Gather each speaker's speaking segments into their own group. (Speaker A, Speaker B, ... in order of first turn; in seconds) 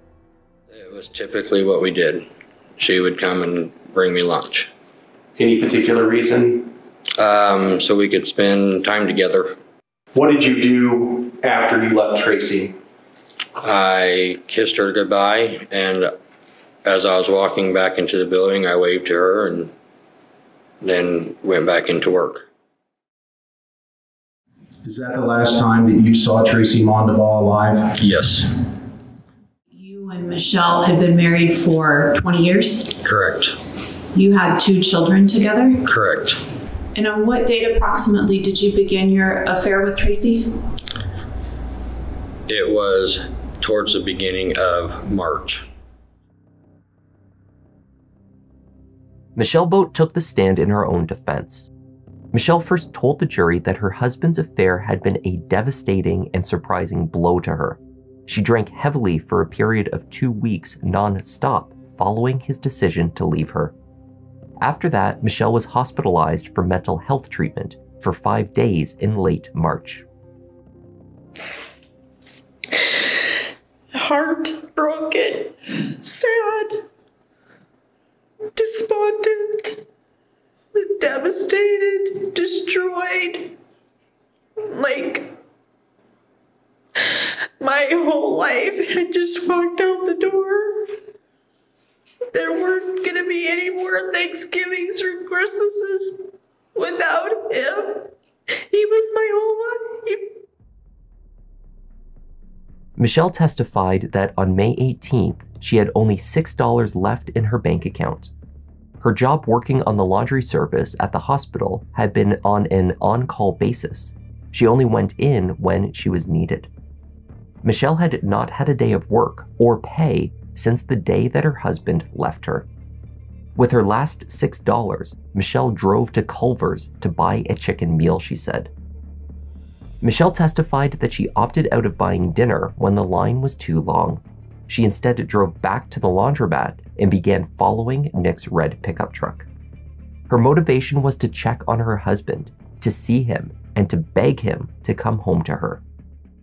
Speaker A: 0.7-2.3, 2.8-4.7, 7.2-9.6, 13.6-16.1, 16.8-19.7, 20.8-22.5, 28.0-28.5, 33.0-33.6, 35.9-36.4, 42.5-45.6
Speaker B: 5.4-6.7, 10.1-12.7, 24.8-27.9
Speaker C: 29.7-32.9, 34.1-35.8, 36.9-40.6
Speaker D: 49.4-51.7, 52.3-63.7, 64.6-70.0, 103.0-108.3, 109.0-116.7, 117.6-122.7, 123.5-128.7, 130.0-139.5, 140.3-145.8
Speaker E: 72.8-73.1, 73.9-76.8, 78.5-79.8, 80.7-83.5, 84.6-85.3, 87.0-90.9, 92.3-100.4